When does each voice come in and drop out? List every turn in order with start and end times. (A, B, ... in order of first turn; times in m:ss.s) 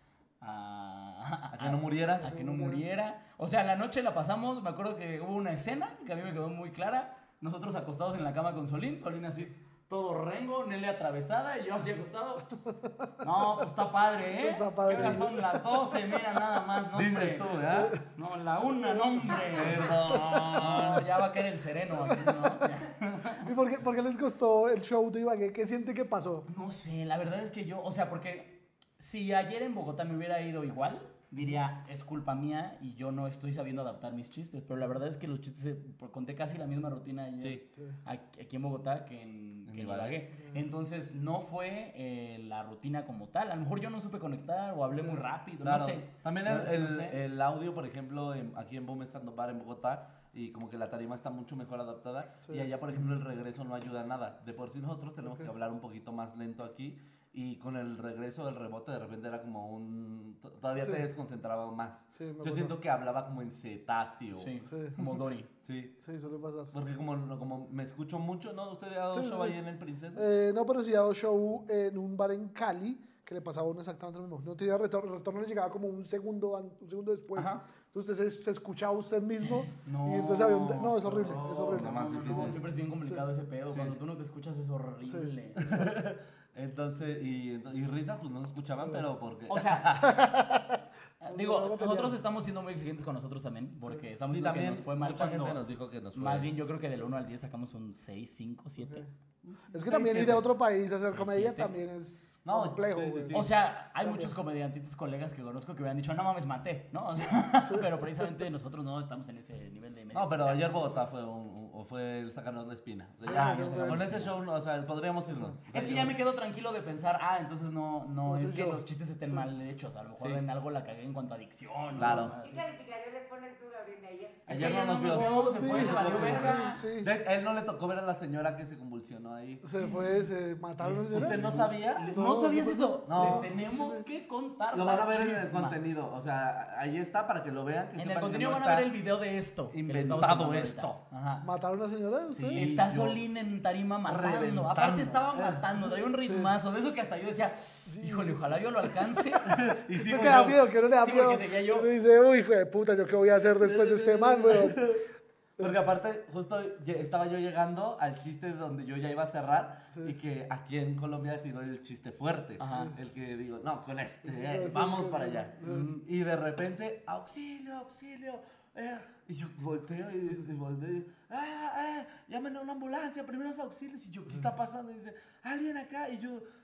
0:00.4-0:12.5 A
0:01.5-0:02.3 B
0:02.2-0:02.8 C
0:12.6-0:13.1 C
0:13.2-0:17.5 A
0:14.3-0:15.6 C
0:14.9-0:15.2 B
0:16.9-0:18.0 B
0:17.7-0:18.0 C
0:18.1-0:23.5 A
0:19.2-0:20.1 C
0:19.4-0:21.1 B
0:22.0-0:22.8 C
0:23.4-0:26.4 C
0:26.5-0:47.2 A
0:39.7-0:40.2 B
0:45.6-1:05.1 B
0:55.2-0:55.5 C
1:00.8-1:01.0 C
1:02.1-1:02.7 C
1:04.3-1:05.5 A
1:04.6-1:05.0 C
1:05.6-1:06.0 B
1:06.0-1:06.7 C
1:06.7-1:10.2 B
1:09.1-1:09.6 C
1:10.1-1:23.2 C
1:19.4-1:25.9 A
1:21.5-1:22.6 B
1:23.7-1:24.0 B
1:25.0-1:25.3 C
1:25.6-1:30.3 B
1:29.5-1:30.0 A
1:30.0-1:30.7 C
1:31.2-1:35.6 A
1:31.3-1:32.2 C
1:34.3-1:36.5 B
1:36.1-1:39.0 A
1:38.8-1:39.1 C
1:39.4-1:40.5 B
1:39.7-1:43.4 C
1:41.1-1:41.7 A
1:42.4-1:43.5 B
1:43.3-1:50.9 A
1:44.0-1:44.3 C
1:47.6-1:48.4 C
1:50.1-1:56.1 B
1:53.2-1:54.1 C
1:53.2-1:54.3 A
1:55.7-2:02.6 A
1:58.2-1:59.4 C
2:01.9-2:02.3 B
2:02.1-2:04.8 D
2:04.5-2:06.8 A
2:04.5-2:09.6 B
2:05.1-2:07.1 C
2:09.6-2:14.1 C
2:09.8-2:10.2 A
2:10.8-2:15.8 A
2:10.8-2:12.1 B
2:13.1-2:13.5 B
2:14.7-2:18.9 B
2:18.0-2:21.5 A
2:19.7-2:20.9 B
2:21.4-2:22.7 C
2:22.3-2:23.2 B
2:22.5-2:29.5 A
2:24.0-2:25.7 B
2:26.2-2:26.5 C
2:27.8-2:28.6 C
2:29.4-2:30.6 B
2:30.0-2:35.0 C
2:31.0-2:31.9 A
2:33.6-2:35.0 B
2:35.6-2:56.4 B
2:42.6-2:42.9 A
2:42.7-2:42.9 C
2:44.2-2:45.9 C
2:45.6-2:46.0 A